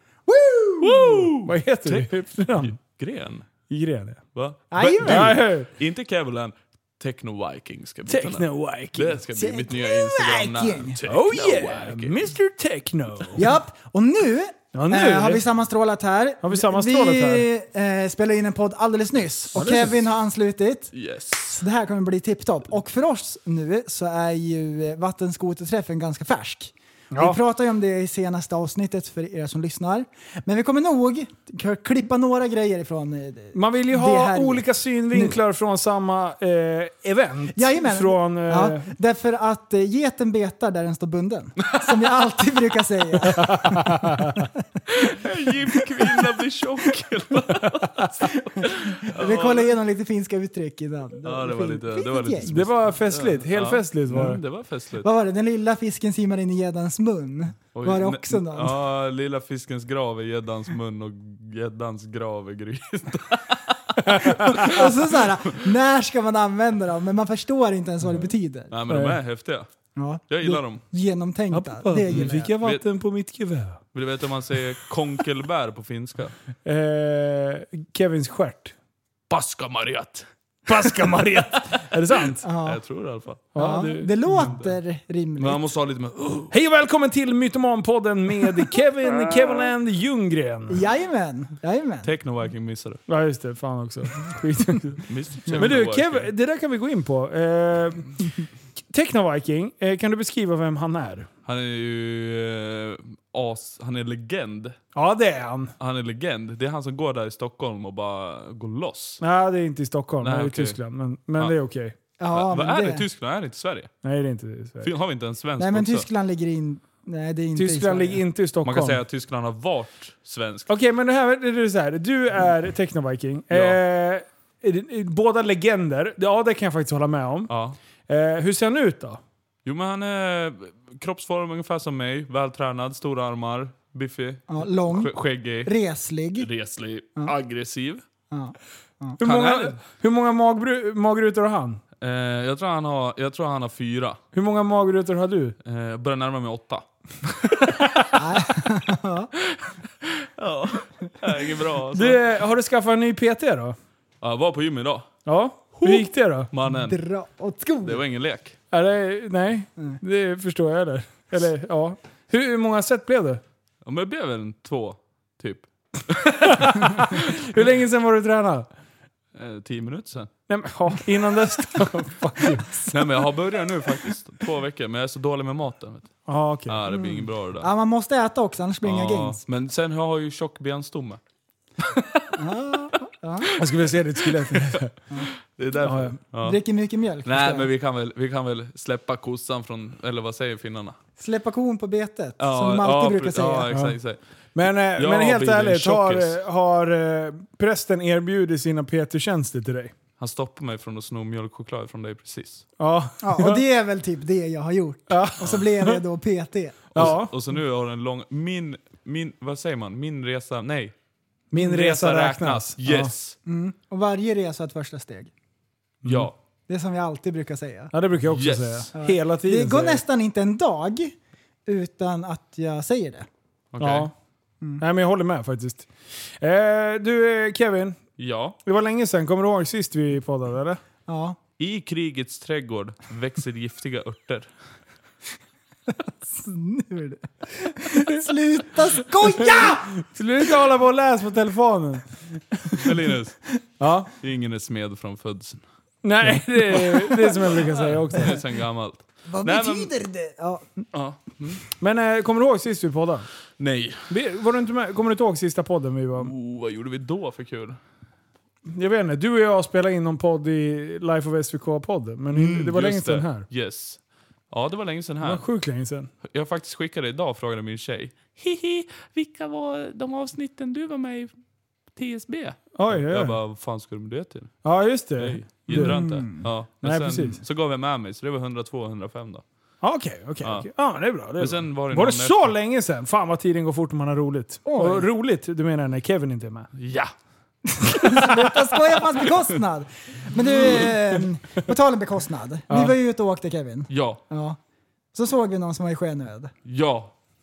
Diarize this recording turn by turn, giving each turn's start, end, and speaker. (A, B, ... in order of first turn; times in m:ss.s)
0:00.3-0:01.1 A
0:00.8-0:03.5 B
0:01.4-0:02.7 C
0:03.7-0:04.2 C
0:04.3-0:12.2 B
0:04.7-0:05.3 A
0:04.8-0:05.7 C
0:08.0-0:09.2 C
0:09.3-0:11.0 A
0:11.0-0:13.4 C
0:13.4-0:20.9 A
0:14.7-0:15.4 C
0:16.4-0:17.5 C
0:19.5-0:20.0 C
0:20.9-0:21.6 B
0:21.5-0:35.3 A
0:27.1-0:27.4 C
0:33.5-0:38.9 C
0:37.5-0:44.1 A
0:43.4-0:44.4 C
0:44.9-0:49.7 B
0:48.6-0:52.6 A
0:51.2-0:55.1 B
0:52.4-0:54.4 C
0:55.0-0:58.8 A
0:57.7-1:04.9 B
1:04.0-1:04.7 C
1:04.5-1:08.7 A
1:08.2-1:09.7 B
1:08.9-1:09.2 C
1:10.0-1:12.5 A
1:10.3-1:10.8 B
1:11.5-1:13.8 C
1:12.1-1:12.8 B
1:13.9-1:16.3 B
1:16.6-1:18.7 C
1:19.3-1:20.2 B
1:20.7-1:22.4 C
1:22.4-1:22.8 A
1:22.6-1:23.5 B
1:23.5-1:24.5 C
1:23.6-1:25.6 A
1:24.2-1:24.7 B
1:25.4-1:26.5 B
1:26.5-1:30.8 C
1:29.1-1:29.7 B
1:30.7-1:32.1 A
1:32.0-1:33.0 B
1:33.1-1:38.3 C
1:35.1-1:36.3 B
1:38.9-1:41.3 C
1:41.4-1:44.8 B
1:44.9-1:45.7 C
1:45.8-1:49.2 B
1:49.2-1:51.9 C
1:50.2-1:50.8 B
1:52.2-1:53.0 A
1:52.3-1:53.9 B
1:54.0-1:54.9 C
1:54.8-1:56.1 B
1:55.6-1:58.2 A
1:57.6-1:59.0 C
1:58.6-2:00.7 B
2:00.7-2:07.5 C
2:03.5-2:03.8 B
2:07.5-2:07.8 B
2:08.1-2:09.2 C
2:09.6-2:15.7 B
2:14.5-2:16.5 A
2:16.4-2:18.0 B
2:18.3-2:19.2 A
2:19.2-2:21.8 C
2:19.2-2:19.8 B
2:22.0-2:24.2 B
2:24.3-2:25.6 C
2:25.6-2:28.1 B
2:28.1-2:29.3 A
2:29.5-2:32.2 B
2:31.9-2:33.8 C
2:34.2-2:35.1 B
2:35.2-2:36.5 C
2:35.7-2:37.0 B
2:36.6-2:38.0 A
2:37.8-2:38.6 B
2:38.7-2:43.4 C
2:43.8-2:47.4 B
2:46.4-2:48.7 C
2:49.3-2:50.3 B
2:50.5-2:53.0 C
2:52.9-2:56.1 B
2:56.2-2:57.0 C
2:56.7-2:57.7 B
2:57.6-2:59.4 A
2:58.8-3:01.2 B
3:01.9-3:02.2 B
3:02.4-3:03.5 A
3:03.6-3:04.9 C
3:04.3-3:04.8 B
3:05.5-3:06.6 B
3:05.8-3:06.2 C
3:06.4-3:07.7 A
3:07.2-3:11.0 B
3:11.2-3:13.7 A
3:12.4-3:14.2 B
3:13.7-3:14.0 C
3:14.5-3:19.9 C
3:15.0-3:16.3 B
3:20.2-3:22.6 B
3:22.8-3:23.6 C
3:23.2-3:27.1 A
3:25.1-3:26.0 C
3:26.9-3:30.9 B
3:26.9-3:27.3 C
3:31.5-3:33.1 C
3:31.6-3:33.4 B
3:33.4-3:35.3 A
3:36.0-3:36.3 C
3:36.0-3:36.3 B
3:36.7-3:37.9 A
3:37.9-3:40.0 C
3:38.3-3:38.9 B
3:38.9-3:41.1 A
3:41.6-3:43.3 A
3:43.7-3:44.1 B
3:43.8-3:44.1 C
3:44.8-3:45.9 C
3:46.4-3:48.0 C
3:48.2-3:48.6 B
3:48.6-3:50.8 C
3:51.0-3:51.4 A
3:51.6-3:54.5 B
3:56.2-3:59.9 A
3:59.2-4:02.9 C
4:02.8-4:03.4 B
4:03.8-4:04.1 C
4:04.2-4:05.6 B
4:06.0-4:08.4 C
4:06.9-4:09.9 B
4:09.3-4:10.8 A
4:10.9-4:11.6 B
4:11.8-4:13.3 C
4:13.6-4:14.1 B
4:14.1-4:16.3 C
4:16.2-4:17.8 B
4:18.7-4:23.4 C
4:22.3-4:24.0 B
4:24.5-4:25.4 B
4:25.2-4:26.1 C
4:26.3-4:31.3 B
4:31.9-4:34.5 B
4:32.8-4:33.4 C
4:34.6-4:36.0 C
4:35.2-4:39.4 B
4:35.7-4:36.4 A
4:36.8-4:37.4 C
4:39.8-4:46.7 C
4:41.4-4:42.5 B
4:44.6-4:45.0 A
4:46.8-4:47.1 B
4:47.8-4:54.6 A
4:48.0-4:48.4 C
4:52.7-4:53.0 C
4:53.9-4:54.2 B
4:55.1-4:56.5 A
4:56.6-4:57.1 B